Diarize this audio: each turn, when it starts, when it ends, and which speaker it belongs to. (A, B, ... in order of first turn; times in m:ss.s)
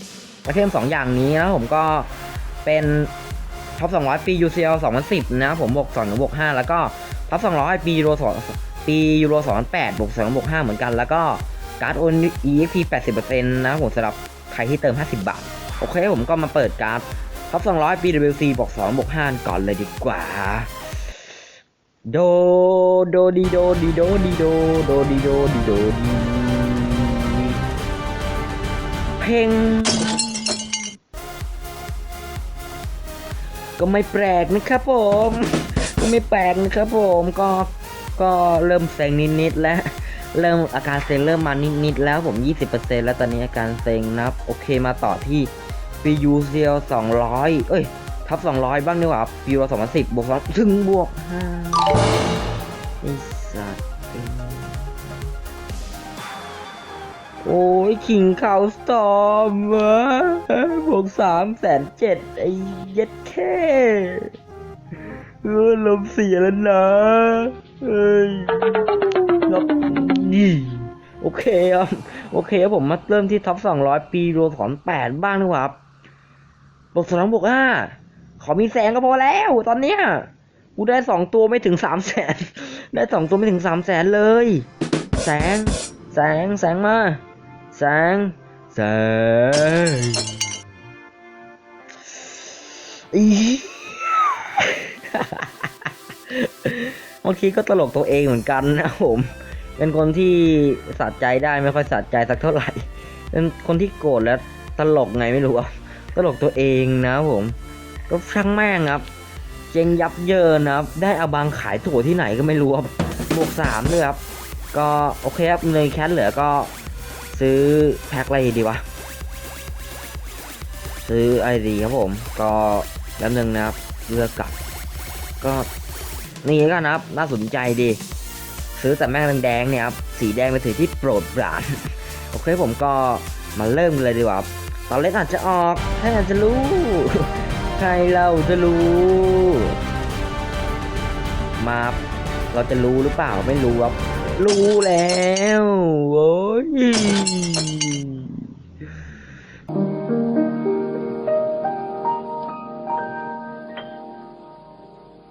0:00.4-0:02.1 A
0:02.6-0:03.1 A
0:03.8-0:20.7 A
0:22.1-0:27.6 A
0:29.2-0:30.7 A
0:33.8-0:45.5 A
0:46.0-0:52.1 A
0:53.0-0:55.1 A
0:57.4-1:04.3 A
1:05.4-1:08.8 A
1:09.4-1:15.8 A
1:16.9-1:24.6 A
1:25.2-1:27.2 A
1:27.7-1:30.4 A
1:33.1-1:47.6 A
1:48.1-1:49.1 A
1:49.7-1:54.2 A
1:54.7-1:56.7 A
1:57.3-1:58.8 A
2:01.0-2:04.5 A
2:05.4-2:05.7 A
2:06.4-2:08.0 A
2:08.8-2:19.8 A
2:21.6-2:22.0 A
2:22.5-2:28.4 A